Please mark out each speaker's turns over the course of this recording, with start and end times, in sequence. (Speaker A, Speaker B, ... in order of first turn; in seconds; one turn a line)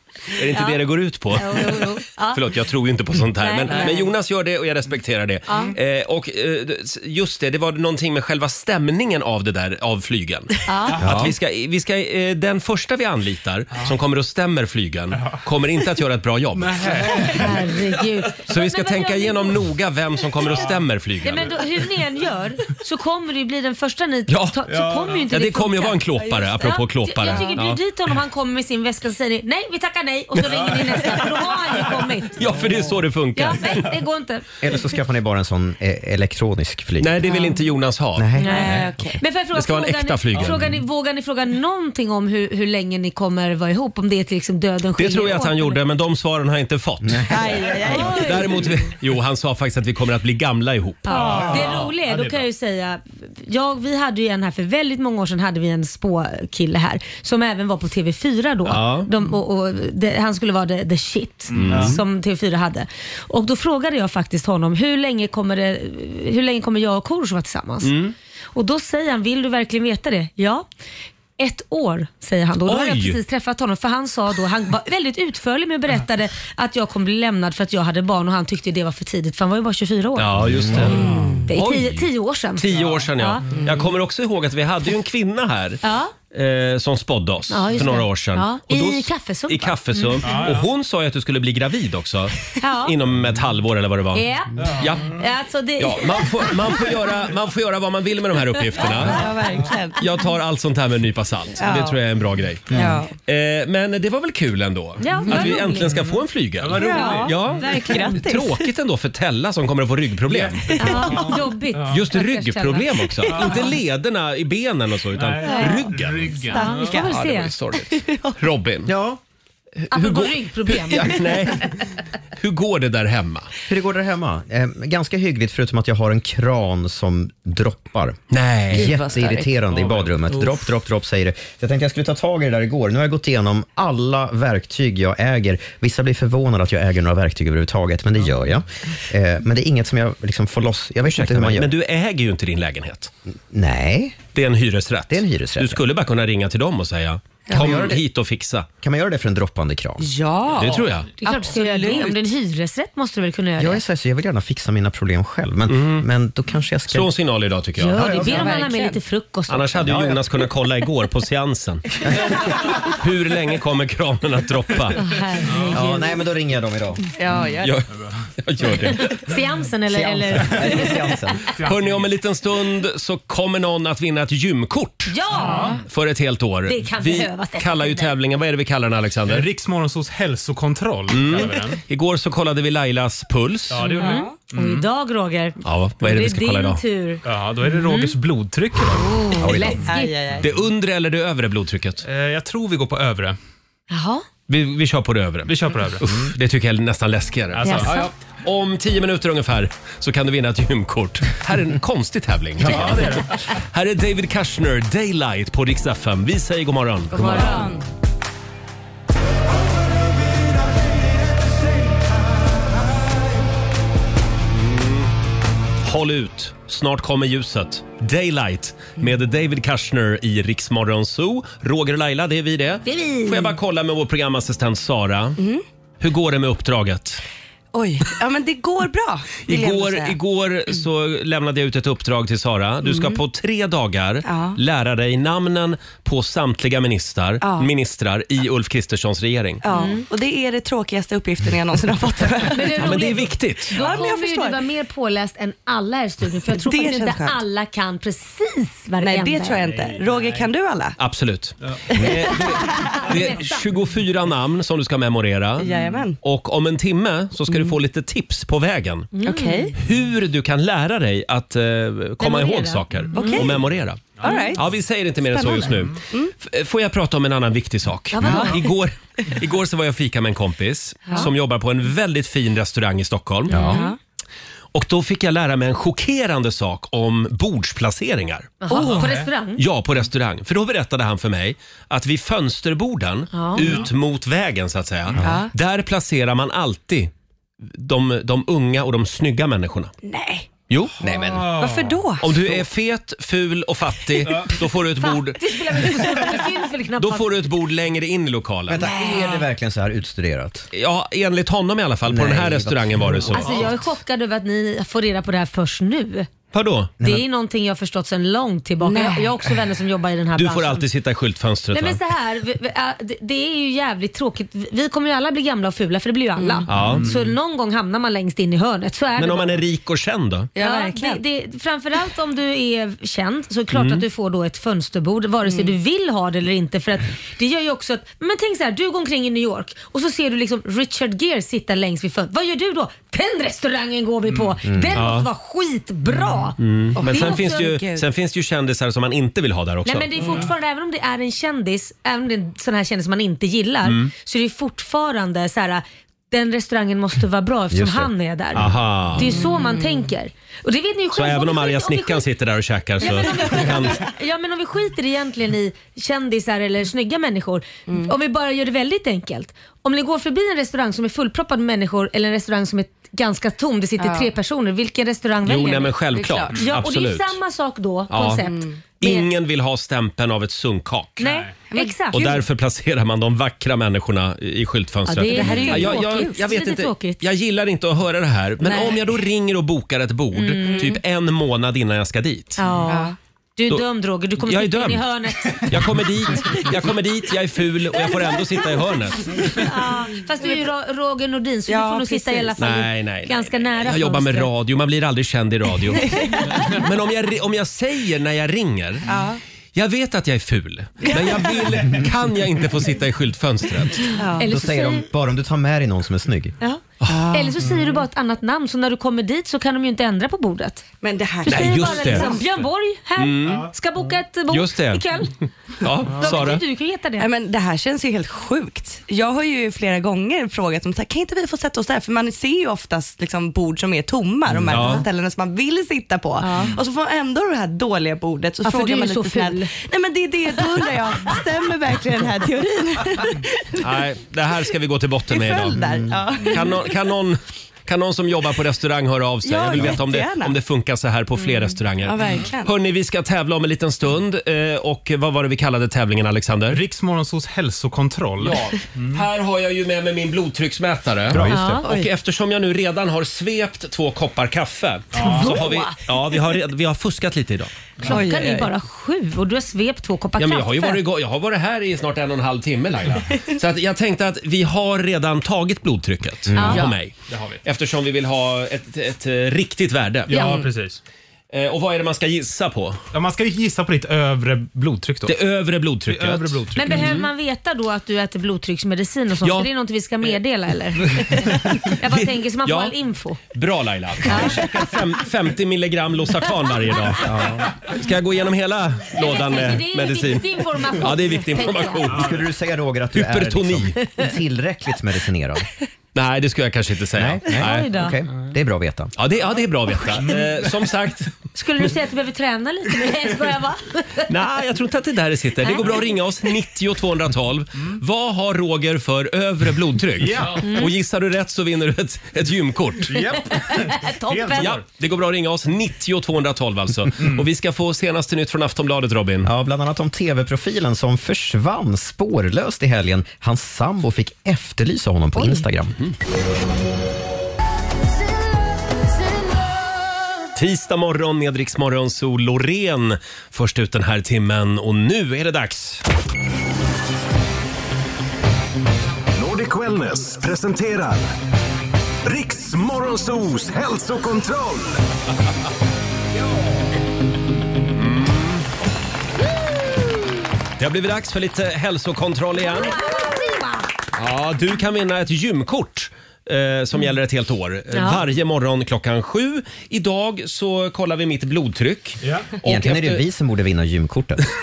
Speaker A: 0.3-17.4
Speaker B: 0.5-0.8
Speaker B: 1.3-2.4
Speaker B: 3.4-4.1
Speaker B: 5.5-5.7
Speaker B: 10.7-11.0
Speaker C: 11.0-11.3
Speaker D: 16.6-18.0
Speaker B: 17.2-19.6
Speaker A: 18.4-21.6
Speaker B: 21.2-26.1
Speaker A: 24.3-27.8
Speaker D: 24.7-25.3
Speaker E: 26.2-26.8
Speaker B: 26.6-32.4
Speaker D: 30.4-30.8
Speaker A: 32.3-33.9
Speaker B: 33.4-34.5
Speaker C: 34.6-37.4
Speaker A: 37.0-38.3
Speaker C: 38.1-38.9
Speaker E: 38.4-39.2
Speaker B: 38.4-45.8
Speaker A: 39.5-40.8
Speaker A: 45.0-51.8
Speaker C: 47.0-47.5
Speaker E: 47.3-48.6
Speaker B: 47.8-48.6
Speaker B: 51.0-67.9
Speaker D: 51.1-52.4
Speaker A: 58.6-59.1
Speaker A: 61.5-62.0
Speaker D: 61.5-62.0
Speaker A: 67.8-68.1
Speaker B: 68.5-70.7
Speaker B: 71.4-80.4
Speaker A: 72.6-73.2
Speaker A: 80.2-95.2
Speaker C: 80.5-81.0
Speaker B: 81.5-83.4
Speaker D: 82.7-83.1
Speaker B: 85.8-86.1
Speaker B: 87.5-90.4
Speaker D: 90.2-90.7
Speaker B: 92.6-93.0
Speaker B: 94.1-96.7
Speaker D: 94.6-94.9
Speaker A: 95.8-99.4
Speaker E: 98.8-100.0
Speaker A: 100.0-111.0
Speaker E: 101.6-102.0
Speaker C: 102.7-103.0
Speaker E: 102.7-103.1
Speaker B: 105.0-106.0
Speaker D: 105.2-107.6
Speaker E: 106.7-108.7
Speaker B: 106.9-108.2
Speaker D: 110.3-112.1
Speaker E: 110.6-111.4
Speaker B: 110.8-113.6
Speaker A: 111.9-118.9
Speaker D: 113.2-113.7
Speaker D: 115.1-117.0
Speaker E: 115.5-115.8
Speaker B: 115.5-115.8
Speaker B: 116.5-117.5
Speaker E: 116.5-117.1
Speaker E: 117.9-118.4
Speaker C: 118.8-119.2
Speaker A: 119.8-121.8
Speaker B: 119.9-121.6
Speaker A: 122.3-123.5
Speaker C: 123.7-141.7
Speaker A: 128.3-128.9
Speaker E: 128.7-129.7
Speaker D: 129.7-130.1
Speaker A: 141.0-143.1
Speaker C: 143.5-144.2
Speaker A: 144.3-148.7
Speaker C: 145.1-145.8
Speaker E: 147.5-147.8
Speaker C: 147.5-148.0
Speaker C: 148.8-150.1
Speaker E: 150.0-152.3
Speaker A: 150.5-151.1
Speaker B: 151.2-153.8
Speaker C: 153.6-157.1
Speaker A: 155.7-156.1
Speaker A: 156.9-158.1
Speaker B: 157.8-160.0
Speaker C: 157.9-158.5
Speaker E: 158.1-159.0
Speaker A: 159.5-165.1
Speaker C: 159.8-160.2
Speaker B: 165.0-166.0
Speaker C: 165.7-167.0
Speaker E: 167.2-167.8
Speaker A: 167.6-169.2
Speaker B: 169.1-171.3
Speaker C: 169.9-171.4
Speaker D: 171.6-172.1
Speaker A: 171.6-175.2
Speaker B: 175.1-175.8
Speaker D: 175.3-175.8
Speaker A: 175.8-179.5
Speaker B: 176.7-178.1
Speaker D: 179.2-181.8
Speaker A: 181.1-183.8
Speaker D: 183.7-184.8
Speaker B: 183.8-188.1
Speaker E: 184.0-184.3
Speaker A: 185.6-186.8
Speaker D: 187.2-189.3
Speaker B: 188.8-190.2
Speaker C: 189.4-189.8
Speaker E: 189.7-190.5
Speaker A: 190.4-192.0
Speaker D: 192.0-193.4
Speaker B: 193.9-194.2
Speaker A: 194.5-207.5
Speaker D: 195.4-196.1
Speaker D: 197.5-198.1
Speaker B: 197.7-198.1
Speaker D: 202.6-203.3
Speaker E: 207.1-207.8
Speaker B: 207.2-207.7
Speaker C: 207.2-207.5
Speaker A: 214.5-215.1
Speaker A: 215.8-225.4
Speaker B: 222.8-223.5
Speaker A: 226.0-227.2
Speaker E: 227.7-230.2
Speaker A: 229.4-239.6
Speaker E: 232.8-233.2
Speaker E: 234.2-234.6
Speaker E: 237.4-237.7
Speaker E: 239.6-243.1
Speaker B: 239.7-240.1
Speaker B: 242.5-249.7
Speaker A: 242.8-243.8
Speaker E: 243.7-244.6
Speaker D: 243.8-244.1
Speaker E: 246.5-247.4
Speaker E: 249.0-251.0
Speaker D: 249.6-250.5
Speaker A: 251.0-255.7
Speaker B: 252.7-253.6
Speaker E: 255.6-256.2
Speaker A: 256.2-259.1
Speaker E: 257.5-257.7
Speaker B: 259.1-259.7
Speaker E: 259.2-259.7
Speaker A: 259.8-273.6
Speaker B: 262.2-263.4
Speaker E: 263.1-263.6
Speaker D: 264.2-264.5
Speaker E: 264.2-264.6
Speaker E: 265.3-266.3
Speaker B: 268.1-268.7
Speaker E: 268.2-268.6
Speaker C: 273.5-273.8
Speaker E: 273.5-274.0
Speaker B: 273.5-273.9
Speaker A: 274.7-287.1
Speaker B: 278.6-279.6
Speaker D: 278.7-279.3
Speaker B: 283.3-283.8
Speaker D: 283.6-283.9
Speaker E: 285.2-285.5
Speaker A: 287.7-289.9
Speaker E: 290.0-290.5
Speaker A: 290.7-290.9
Speaker C: 291.0-291.5
Speaker D: 291.2-292.0
Speaker E: 291.6-292.5
Speaker A: 292.2-295.5
Speaker D: 294.2-294.6
Speaker B: 294.9-297.3
Speaker A: 297.0-298.9
Speaker C: 298.7-300.7
Speaker E: 298.8-299.4
Speaker A: 300.7-303.8
Speaker C: 302.1-303.7
Speaker B: 303.3-306.3
Speaker A: 306.5-306.9
Speaker B: 307.0-310.9
Speaker C: 307.0-307.2
Speaker E: 308.8-309.4
Speaker A: 310.4-312.0
Speaker B: 311.7-319.6
Speaker E: 316.4-316.7
Speaker A: 316.7-317.1
Speaker A: 319.2-320.5
Speaker E: 320.5-321.2
Speaker B: 320.6-337.8
Speaker A: 323.7-324.0
Speaker E: 325.4-325.7
Speaker D: 334.3-334.6
Speaker C: 334.6-334.9
Speaker A: 334.9-335.3
Speaker A: 336.6-340.1
Speaker E: 336.9-338.0
Speaker B: 339.8-352.2
Speaker D: 340.2-340.5
Speaker A: 343.8-344.1
Speaker C: 347.7-348.1
Speaker A: 348.5-349.3
Speaker E: 349.2-350.1
Speaker A: 351.1-354.1
Speaker B: 353.0-366.0
Speaker E: 357.9-358.1
Speaker E: 364.0-364.3
Speaker A: 365.4-367.4
Speaker E: 366.1-366.5
Speaker B: 366.5-369.3
Speaker A: 368.1-368.4
Speaker E: 368.4-368.8
Speaker A: 369.0-371.3
Speaker B: 371.2-372.4
Speaker D: 371.2-371.6
Speaker E: 371.7-372.4
Speaker A: 372.1-382.6
Speaker B: 375.1-377.2
Speaker E: 375.2-376.4
Speaker E: 378.6-379.1
Speaker B: 380.3-381.0
Speaker E: 380.7-380.9
Speaker B: 382.6-386.0
Speaker E: 382.9-383.1
Speaker A: 384.4-389.6
Speaker B: 389.5-394.5
Speaker E: 391.7-392.6
Speaker A: 392.6-399.1
Speaker E: 396.0-396.4
Speaker B: 396.1-396.7
Speaker E: 399.1-399.4
Speaker A: 399.7-404.1
Speaker E: 401.0-401.6
Speaker E: 404.2-404.5
Speaker B: 404.3-405.1
Speaker C: 404.4-406.5
Speaker B: 406.6-410.8
Speaker E: 407.0-407.9
Speaker E: 411.0-412.4
Speaker B: 411.4-415.3
Speaker A: 411.4-412.4
Speaker A: 413.2-413.7
Speaker A: 414.5-415.1
Speaker A: 415.8-416.6
Speaker B: 416.2-417.3
Speaker E: 417.2-433.8
Speaker A: 424.7-425.0
Speaker B: 428.6-429.7
Speaker A: 433.8-435.8
Speaker E: 435.4-436.9
Speaker C: 435.8-436.1
Speaker A: 436.4-446.8
Speaker E: 439.4-440.5
Speaker E: 442.0-442.7
Speaker D: 446.7-449.2
Speaker A: 448.4-457.7
Speaker C: 451.3-451.8
Speaker B: 451.4-451.9
Speaker D: 455.1-455.6
Speaker B: 455.2-455.9
Speaker E: 458.0-458.7
Speaker B: 458.0-461.0
Speaker A: 460.4-470.6
Speaker C: 466.5-466.8
Speaker B: 466.5-466.9
Speaker D: 467.3-467.6
Speaker D: 470.3-471.0
Speaker B: 470.3-470.7
Speaker A: 471.5-473.0
Speaker D: 473.1-475.4
Speaker A: 475.2-477.2
Speaker D: 476.0-477.1
Speaker B: 476.7-483.4
Speaker A: 479.4-479.7
Speaker A: 482.1-482.9
Speaker A: 483.5-492.3
Speaker B: 484.2-484.6
Speaker C: 487.2-487.7
Speaker B: 489.2-492.1
Speaker C: 492.1-495.7
Speaker A: 493.1-494.0
Speaker A: 496.1-497.9
Speaker C: 497.1-499.1
Speaker B: 497.6-498.2
Speaker A: 499.1-501.3
Speaker B: 501.5-504.2
Speaker A: 504.3-513.2
Speaker B: 505.6-506.1
Speaker D: 510.2-510.7
Speaker B: 510.5-510.9
Speaker D: 513.1-514.8
Speaker B: 513.1-514.7
Speaker A: 514.5-519.5
Speaker C: 519.4-525.9
Speaker B: 525.3-525.6
Speaker A: 530.5-536.0
Speaker F: 539.3-541.3
Speaker F: 542.2-545.0
Speaker A: 548.0-548.6
Speaker A: 550.8-553.0
Speaker B: 552.6-553.9
Speaker A: 554.1-563.2
Speaker B: 557.9-558.2
Speaker D: 562.2-562.5
Speaker C: 562.6-564.5